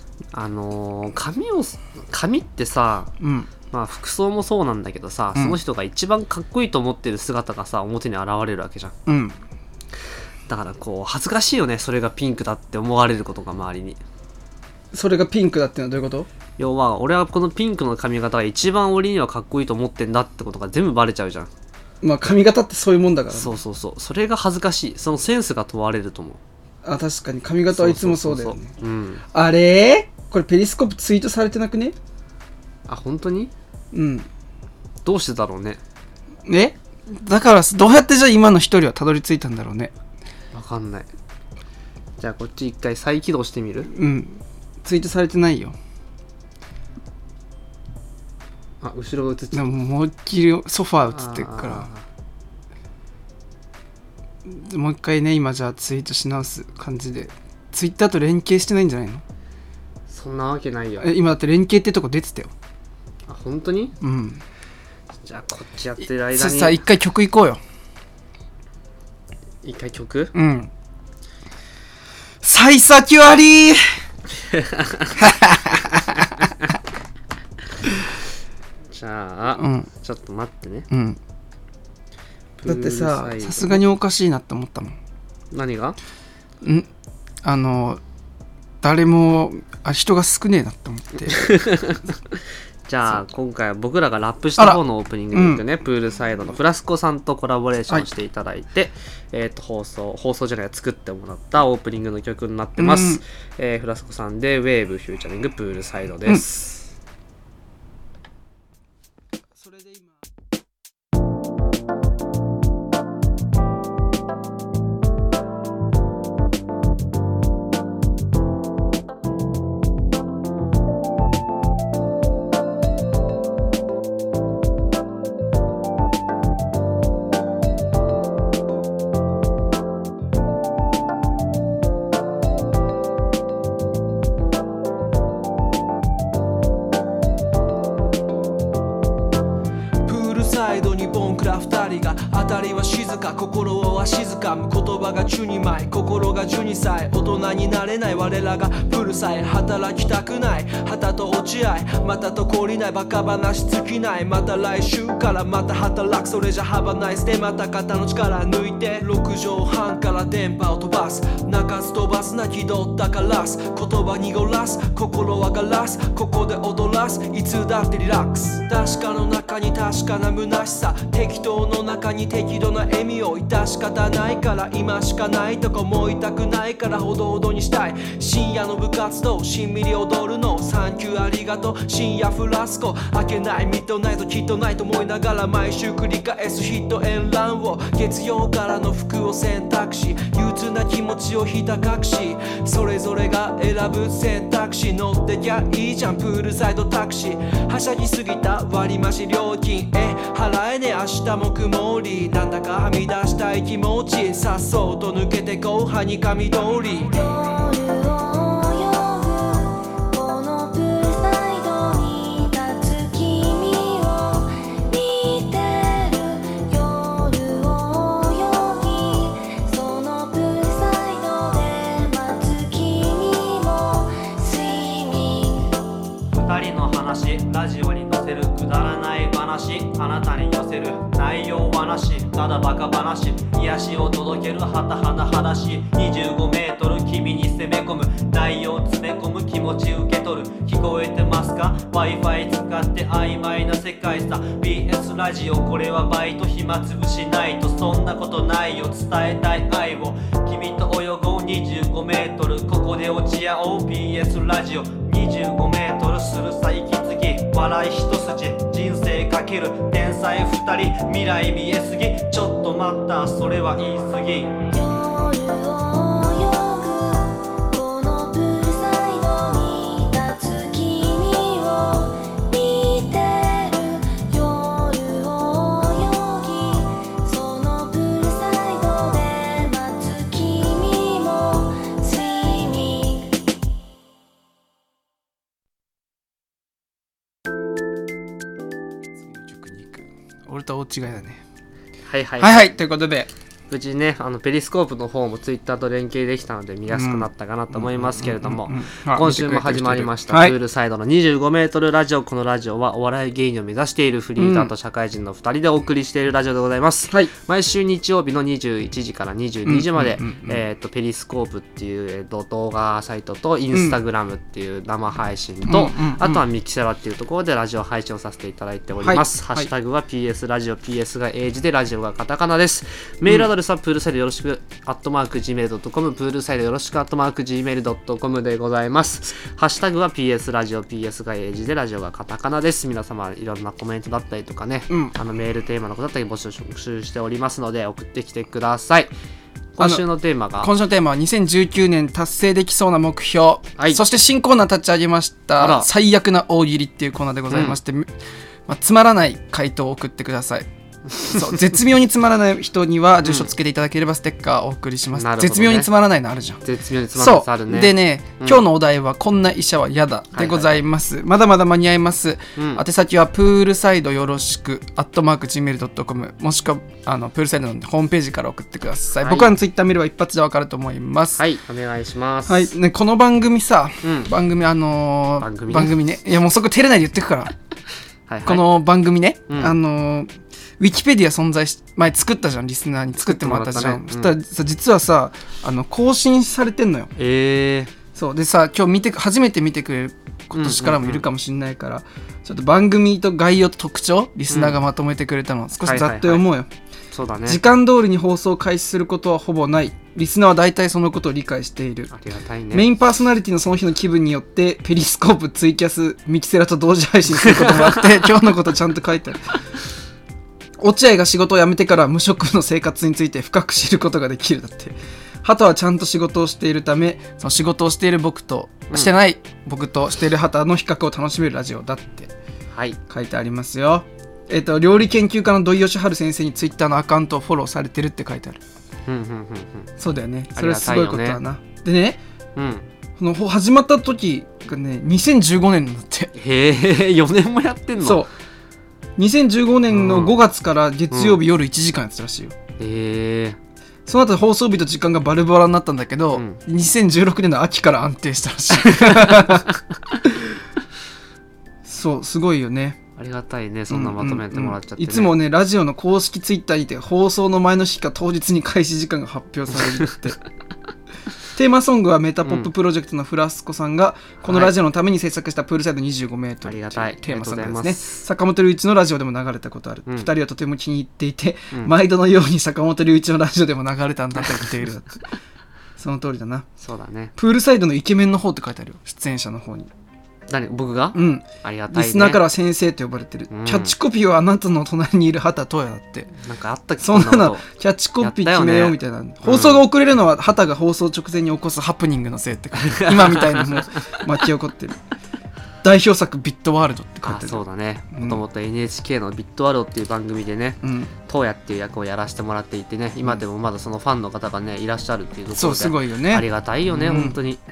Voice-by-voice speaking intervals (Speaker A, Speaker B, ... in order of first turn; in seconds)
Speaker A: 0.3-3.1, 3.6-8.9, 10.5-14.0, 16.6-21.5, 23.3-26.4, 27.7-29.2, 32.9-33.5, 35.0-35.8, 40.5-41.1, 42.2-43.9, 48.8-49.7, 51.1-52.0, 60.1-61.1, 63.3-63.9, 65.2-66.8, 69.6-70.3, 74.4-75.2, 78.9-80.9, 82.6-83.8, 85.5-86.0, 91.3-92.0, 92.9-106.9, 292.1-292.7, 293.7-339.1, 339.8-340.7, 345.6-345.9, 347.5-347.8, 355.1-355.9, 356.6-358.6, 360.3-360.8, 362.6-362.8, 369.2-369.5, 371.4-372.7, 374.0-374.3, 375.4-375.9, 378.3-378.6, 379.5-379.8, 383.2-384.3, 387.2-387.9, 390.6-391.2, 394.5-394.8, 395.8-396.4, 397.1-397.6, 402.1-402.9, 407.5-408.0, 422.7-423.0, 429.1-429.9, 430.6-431.4, 432.6-432.9, 436.4-438.2, 439.9-440.4, 441.1-441.4, 442.8-443.6, 448.8-449.6, 453.2-455.3, 462.4-462.7, 464.5-464.7, 466.6-468.2, 476.8-477.3, 480.5-482.4, 483.5-483.9, 486.4-487.6, 488.2-489.8, 492.8-493.9, 497.2-507.6
Speaker B: 3.2-3.5, 5.3-5.6, 9.1-9.4, 14.9-16.3, 22.0-23.6, 26.8-28.7, 29.3-32.0, 33.9-34.3, 36.5-39.9, 43.9-45.8, 49.5-51.9, 54.5-59.2, 61.0-62.5, 64.0-64.4, 66.3-67.6, 70.3-70.7, 72.4-73.8, 75.2-76.0, 79.5-79.9, 80.9-81.2, 82.7-85.0, 86.6-86.9, 87.4-88.0, 88.8-91.5, 95.3-95.6, 102.8-103.2, 109.6-110.2, 148.2-148.9, 157.9-159.5, 160.6-161.3, 161.9-165.0, 165.5-169.2, 169.9-170.8, 172.6-174.4, 175.6-176.1, 176.7-178.2, 181.4-181.9, 183.5-184.3, 187.3-187.9, 189.9-190.2, 194.2-194.6, 203.1-203.7, 204.7-205.4, 289.2-291.4, 292.4-293.3, 296.9-300.6, 304.4-304.7, 309.6-310.6, 313.7-314.0, 315.7-316.4, 319.0-319.7, 334.9-335.1, 339.8-340.1, 340.6-348.1, 348.7-350.7, 351.2-356.6, 357.1-371.4, 372.5-377.5, 378.4-387.1, 388.1-396.7, 397.5-402.1, 402.7-409.6, 410.8-422.3, 423.1-428.6, 430.0-432.2, 433.2-436.3, 438.0-438.3, 439.2-442.6, 444.1-449.7, 451.9-453.0, 453.9-460.4, 461.6-475.2, 476.0-476.7, 477.4-479.9, 481.1-486.3, 487.0-495.0, 495.8-498.4, 500.8-501.1, 505.5-507.4
Speaker C: 140.1-207.1
Speaker D: 207.1-225.7, 264.7-283.3
Speaker E: 226.3-264.7